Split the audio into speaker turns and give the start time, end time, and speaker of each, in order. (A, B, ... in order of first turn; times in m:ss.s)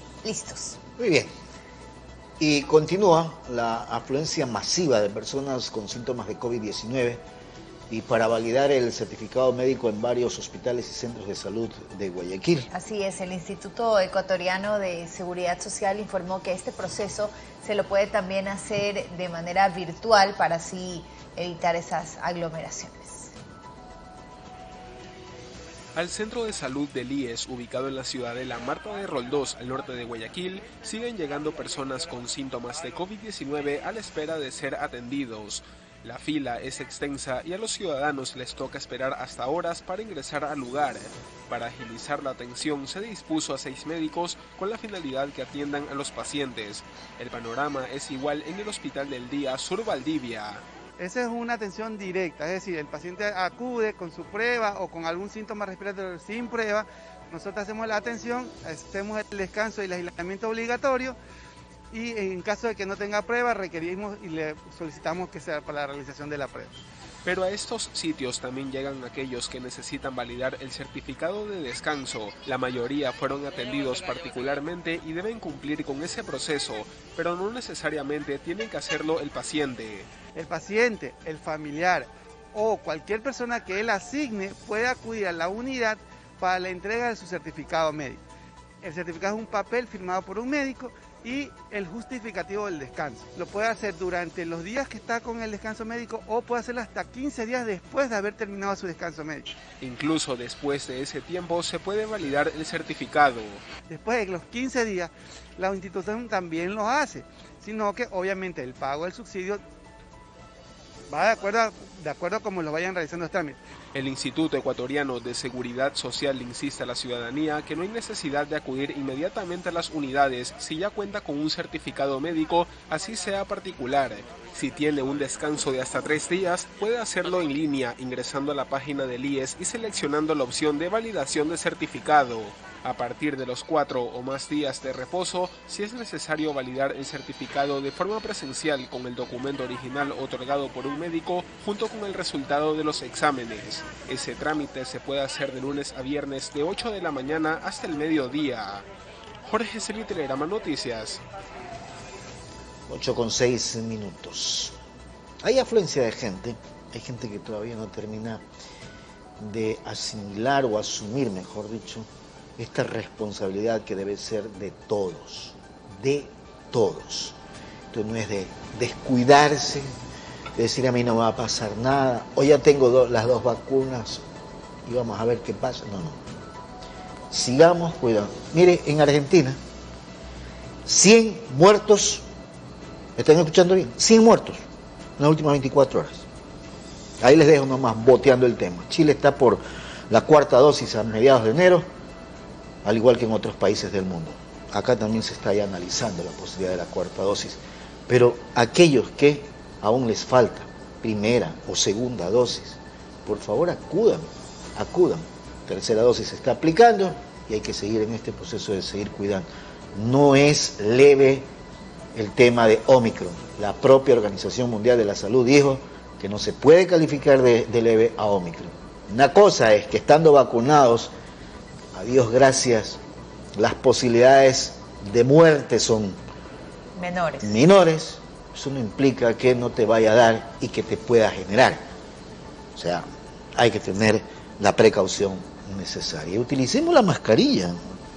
0:00.2-0:00.8 A
0:01.0-0:01.3 B
0:02.4-0:07.2 B
0:07.9-0:12.7 B
0:12.7-0:23.3 A
0:25.9-0:50.6 C
0:51.0-1:01.2 D
1:01.9-1:06.8 D
1:07.2-1:20.1 C
1:20.3-1:28.2 D
1:28.8-1:39.5 D
1:39.8-1:43.6 C
1:43.9-1:49.6 D
1:51.1-1:53.6 D
1:53.9-2:28.8 C
2:29.4-2:31.2 C
2:32.9-2:34.8 B
2:35.4-2:38.4 B
2:39.4-2:47.4 B
2:47.9-2:49.9 B
2:50.6-2:54.2 B
2:54.8-2:56.2 B
2:57.3-2:59.6 B
3:00.8-3:02.2 B
3:03.2-3:04.6 B
3:05.2-3:06.2 B
3:07.2-3:11.8 B
3:12.8-3:31.5 B
3:32.1-3:41.1 B
3:41.9-3:43.0 B
3:43.5-3:46.2 B
3:47.0-3:47.5 A
3:47.4-3:51.8 B
3:52.7-3:57.8 B